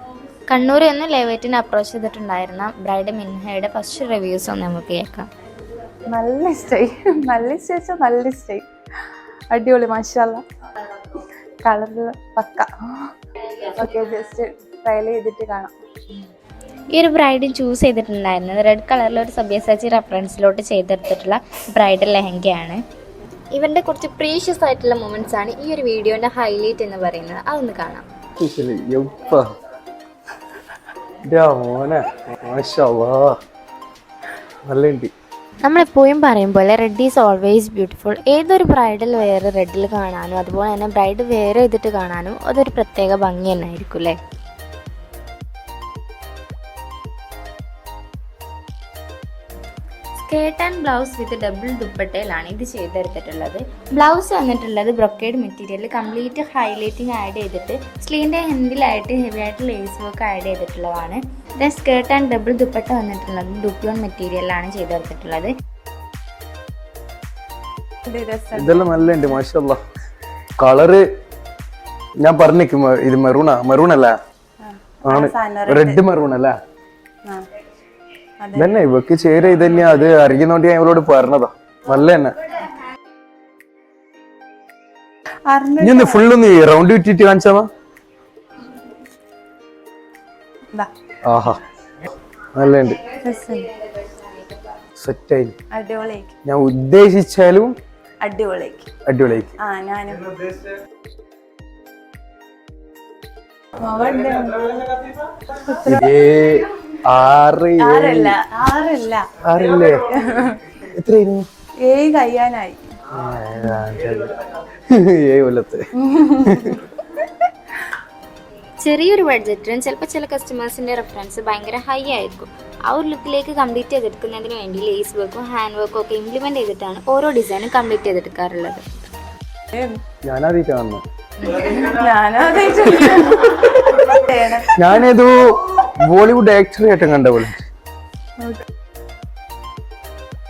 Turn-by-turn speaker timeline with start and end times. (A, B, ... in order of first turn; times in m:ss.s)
0:00.5-0:05.3 A
0:06.1-0:08.6 B
0:09.5-0:10.4 B
0:11.6-0:13.1 B
0:13.6-0:15.7 B
0:16.9-0:22.8 A
0:23.5-0:28.0 A
0:28.4-0:29.4 C
0:31.3-0:33.3 C
0:34.7-0:35.1 C
0:35.6-0:44.2 A
0:50.2-1:05.5 A
1:08.0-1:09.0 B
1:08.5-1:09.8 C
1:10.6-1:11.0 C
1:12.2-1:14.1 C
1:14.6-1:16.0 B
1:15.0-1:16.5 C
1:18.4-1:18.7 B
1:18.5-1:22.3 C
1:25.5-1:26.3 B
1:25.8-1:27.7 C
1:31.2-1:31.6 C
1:32.5-1:33.0 C
1:33.1-1:33.7 B
1:35.0-1:35.5 C
1:35.7-1:36.3 B
1:36.4-1:37.8 C
1:38.2-1:38.9 B
1:39.0-1:39.5 C
1:39.6-1:40.3 B
1:43.8-1:46.1 B
1:45.8-1:48.4 C
1:47.8-1:49.3 B
1:49.4-1:50.1 C
1:50.2-1:50.6 B
1:50.9-1:51.5 C
1:51.8-1:52.8 B
1:53.1-1:56.8 C
1:56.0-1:56.8 B
1:58.8-2:08.8 A
2:09.7-2:10.0 B
2:10.2-2:11.0 C
2:11.5-2:15.0 B
2:14.7-2:17.6 C